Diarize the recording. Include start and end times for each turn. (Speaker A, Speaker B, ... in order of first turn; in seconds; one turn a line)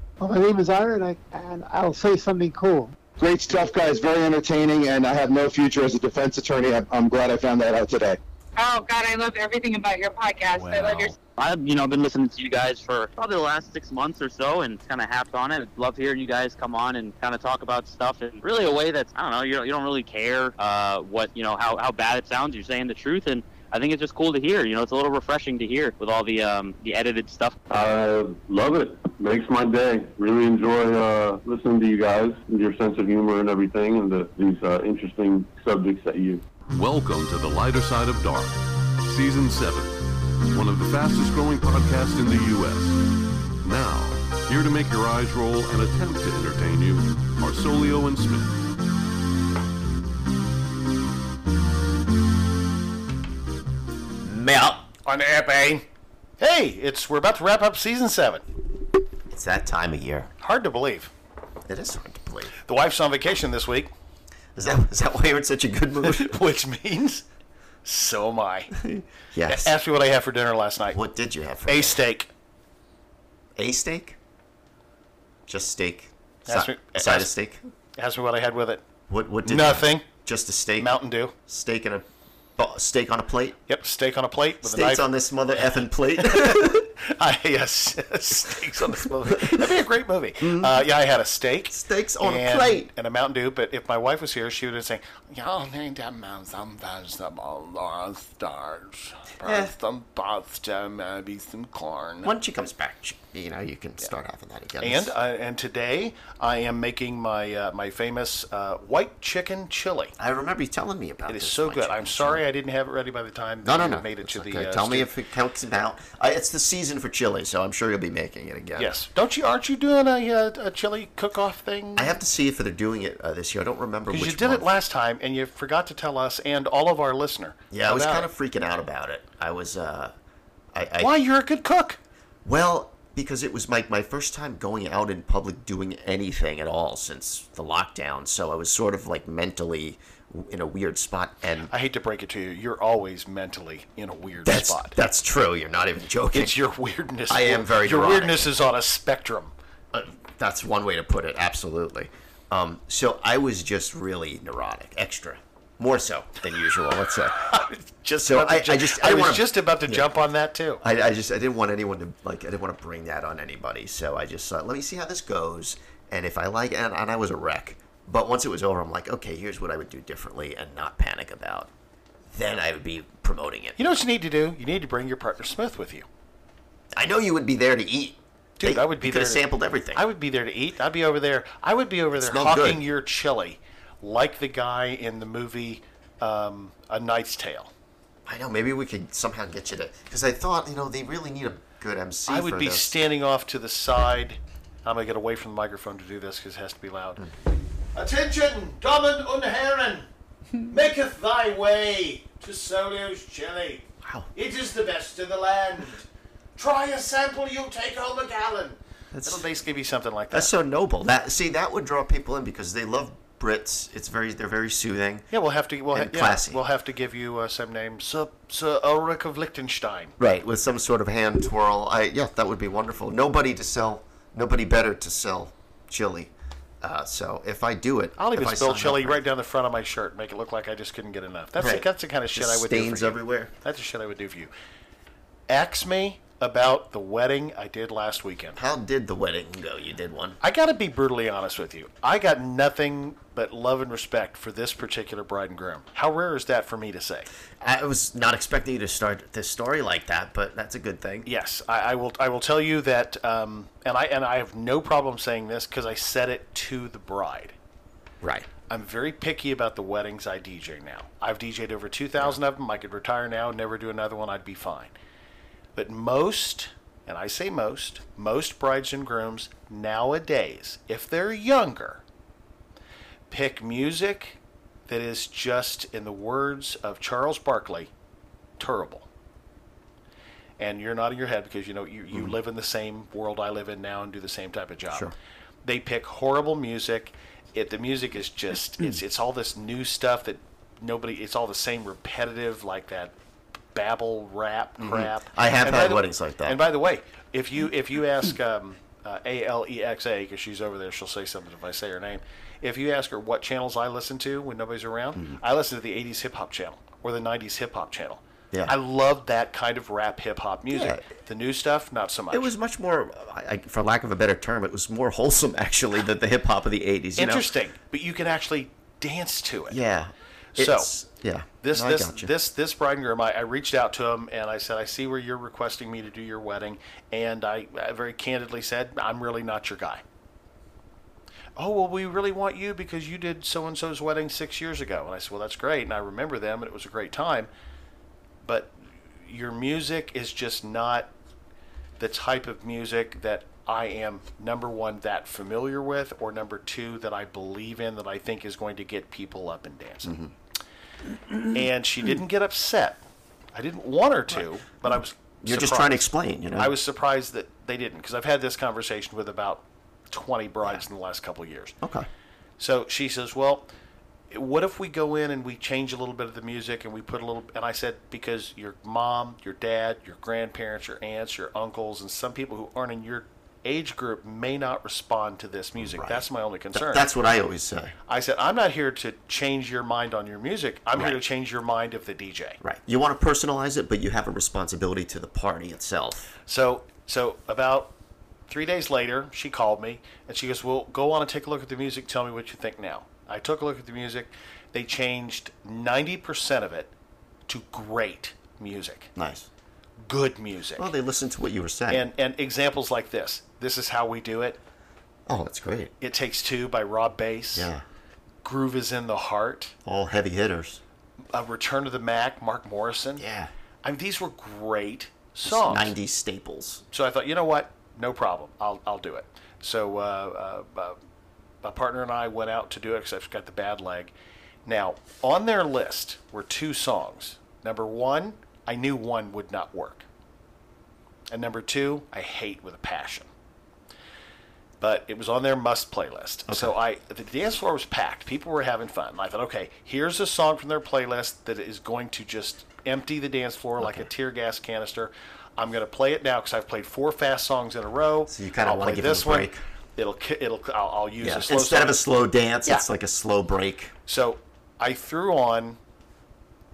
Speaker A: 0.2-3.0
Speaker B: 3.2-8.2
Speaker C: 8.6-11.1
Speaker D: 10.6-11.1
Speaker E: 11.4-27.6
Speaker F: 27.7-36.4
Speaker G: 36.7-43.0
Speaker G: 43.6-48.5
Speaker H: 54.2-54.9
Speaker D: 55.0-55.8
Speaker D: 56.4-58.4
Speaker H: 59.3-60.3
Speaker D: 60.4-61.1
Speaker H: 61.7-62.5
Speaker D: 62.6-63.9
Speaker H: 64.5-66.3
Speaker D: 66.0-67.2
Speaker D: 67.8-68.7
Speaker H: 68.7-69.7
Speaker D: 69.5-71.0
Speaker H: 70.9-72.0
Speaker D: 71.7-72.3
Speaker H: 73.5-74.2
Speaker H: 75.5-77.6
Speaker D: 76.5-77.3
Speaker D: 78.0-78.8
Speaker H: 79.1-80.9
Speaker D: 79.4-80.1
Speaker D: 80.8-81.3
Speaker H: 81.5-82.0
Speaker H: 82.6-83.6
Speaker D: 83.7-85.0
Speaker H: 84.6-86.9
Speaker D: 86.2-102.3
Speaker H: 89.3-89.6
Speaker H: 90.4-90.8
Speaker H: 91.7-92.9
Speaker H: 99.4-99.7
Speaker H: 102.2-105.1
Speaker D: 104.8-110.1
Speaker H: 110.2-112.4
Speaker D: 111.3-115.1
Speaker H: 113.6-118.9
Speaker D: 118.8-122.2
Speaker H: 122.0-124.7
Speaker D: 124.1-128.3
Speaker H: 127.7-130.1
Speaker H: 130.7-131.2
Speaker D: 131.0-132.0
Speaker H: 132.4-141.7
Speaker D: 141.7-145.0
Speaker H: 144.4-146.6
Speaker D: 146.3-149.5
Speaker H: 147.3-148.5
Speaker H: 149.9-157.4
Speaker D: 157.5-160.8
Speaker H: 158.2-160.1
Speaker H: 160.8-171.7
Speaker H: 172.3-173.8
Speaker D: 173.8-176.1
Speaker H: 176.9-180.0
Speaker D: 178.6-187.7
Speaker H: 182.2-182.8
Speaker H: 188.2-193.0
Speaker D: 192.3-197.2
Speaker D: 197.9-200.1
Speaker D: 200.7-210.5
Speaker H: 204.0-204.3
Speaker H: 209.1-209.4
Speaker H: 210.3-215.3
Speaker D: 215.3-220.2
Speaker H: 215.9-216.6
Speaker H: 220.2-229.2
Speaker D: 228.2-234.5
Speaker H: 231.6-233.5
Speaker D: 235.5-238.6
Speaker H: 238.6-240.4
Speaker D: 240.4-247.3
Speaker H: 247.6-251.3
Speaker D: 251.2-257.5
Speaker H: 258.2-258.5
Speaker D: 258.7-264.9
Speaker D: 265.7-272.0
Speaker D: 273.3-277.9
Speaker D: 278.6-279.1
Speaker D: 280.6-285.1
Speaker D: 285.6-293.1
Speaker D: 293.7-312.5
Speaker H: 294.8-296.6
Speaker H: 310.7-311.0
Speaker H: 312.3-317.5
Speaker D: 317.2-319.8
Speaker H: 319.7-322.3
Speaker D: 320.6-320.9
Speaker D: 321.6-330.0
Speaker D: 331.6-337.5
Speaker D: 338.4-341.1
Speaker D: 342.0-350.1
Speaker H: 350.0-350.3
Speaker D: 351.5-353.0
Speaker D: 353.5-361.7
Speaker H: 355.4-356.7
Speaker H: 361.8-362.1
Speaker D: 362.6-363.7
Speaker D: 364.3-377.1
Speaker H: 375.8-377.9
Speaker D: 378.1-382.6
Speaker H: 380.9-381.2
Speaker H: 382.6-386.3
Speaker D: 386.4-387.9
Speaker D: 388.5-396.9
Speaker D: 397.5-399.1
Speaker H: 399.1-399.5
Speaker D: 400.0-400.9
Speaker H: 400.8-402.1
Speaker D: 401.9-404.6
Speaker H: 405.3-405.9
Speaker D: 406.0-407.7
Speaker H: 407.5-407.8
Speaker D: 408.4-409.7
Speaker H: 409.8-410.8
Speaker D: 411.3-413.2
Speaker H: 413.2-413.5
Speaker D: 413.8-415.9
Speaker H: 415.4-416.8
Speaker D: 416.9-421.0
Speaker D: 421.6-424.1
Speaker D: 424.6-430.1
Speaker D: 431.3-433.3
Speaker D: 434.8-452.0
Speaker H: 436.5-436.8
Speaker H: 443.8-444.1
Speaker H: 448.3-449.6
Speaker H: 451.2-453.9
Speaker D: 454.1-455.8